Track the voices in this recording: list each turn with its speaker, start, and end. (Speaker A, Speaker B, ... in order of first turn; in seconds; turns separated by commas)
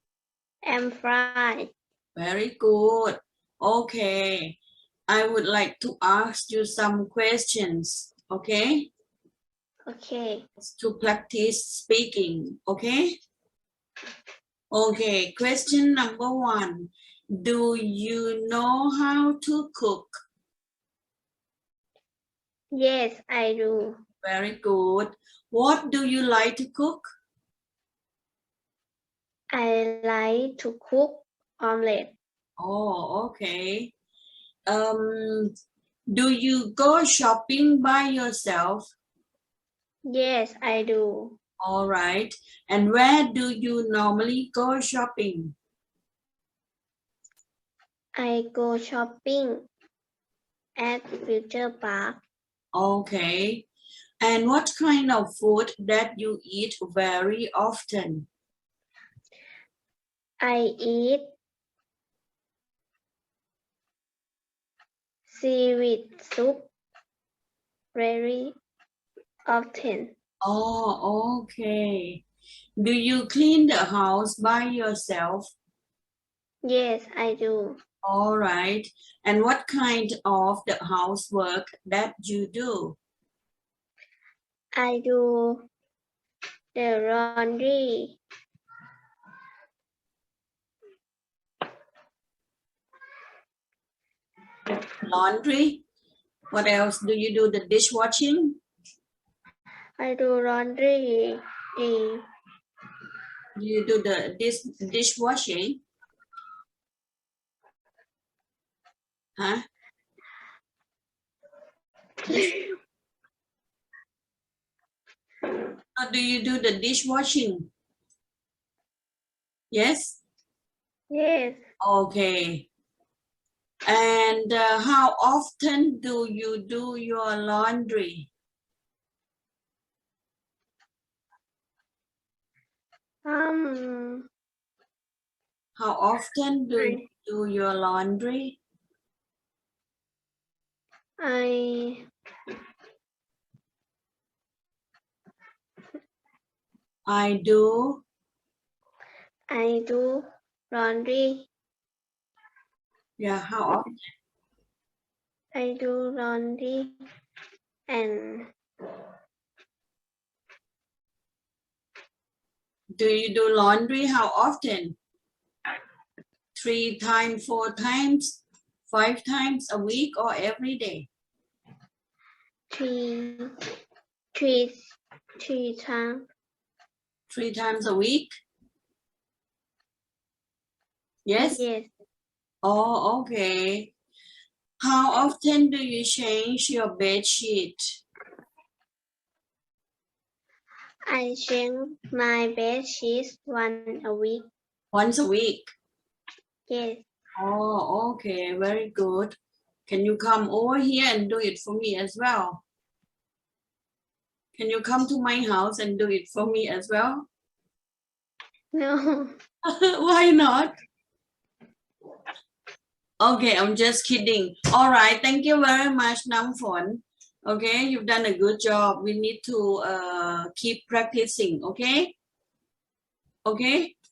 Speaker A: 0.7-1.7, Speaker B: 2.2-4.6, Speaker B: 5.1-8.9, Speaker A: 9.9-10.5, Speaker B: 10.6-13.2, Speaker B: 14.7-20.2, Speaker A: 22.7-24.0, Speaker B: 24.2-27.1, Speaker A: 29.5-32.1, Speaker B: 32.6-33.9, Speaker B: 34.7-35.5, Speaker B: 36.1-38.9, Speaker A: 40.1-41.4, Speaker B: 41.6-45.6, Speaker A: 48.2-49.7, Speaker A: 50.8-52.2, Speaker B: 52.7-53.7, Speaker B: 54.2-58.3, Speaker A: 60.4-61.3, Speaker A: 65.3-66.7, Speaker A: 67.9-68.6, Speaker A: 69.5-70.1, Speaker B: 70.4-72.2, Speaker B: 72.8-75.5, Speaker A: 76.6-77.8, Speaker B: 78.0-83.0, Speaker A: 84.8-85.7, Speaker A: 86.8-88.2, Speaker B: 95.0-95.8, Speaker B: 96.5-98.6, Speaker A: 100.0-102.2, Speaker B: 103.6-105.8, Speaker B: 109.4-109.7, Speaker A: 112.3-112.8, Speaker B: 116.0-117.7, Speaker B: 119.7-120.2, Speaker A: 121.1-121.6, Speaker B: 121.8-122.7, Speaker B: 123.9-128.3, Speaker A: 133.3-134.3, Speaker B: 135.8-138.6, Speaker A: 136.8-137.1, Speaker A: 141.2-142.1, Speaker B: 147.1-148.0, Speaker A: 149.5-151.5, Speaker B: 153.2-153.9, Speaker A: 155.5-157.0, Speaker A: 157.9-158.5, Speaker B: 163.0-165.0, Speaker B: 166.6-171.1, Speaker A: 172.7-173.5, Speaker A: 174.3-176.3, Speaker B: 177.3-178.4, Speaker B: 181.3-181.6, Speaker A: 181.4-181.9, Speaker B: 182.6-183.9, Speaker B: 184.8-188.0, Speaker A: 191.1-194.5, Speaker B: 194.9-195.7, Speaker A: 196.7-197.0, Speaker B: 197.4-199.4, Speaker B: 199.9-202.6, Speaker B: 204.6-207.3, Speaker A: 208.7-209.3, Speaker B: 209.7-210.7, Speaker B: 213.2-222.2, Speaker B: 223.4-223.9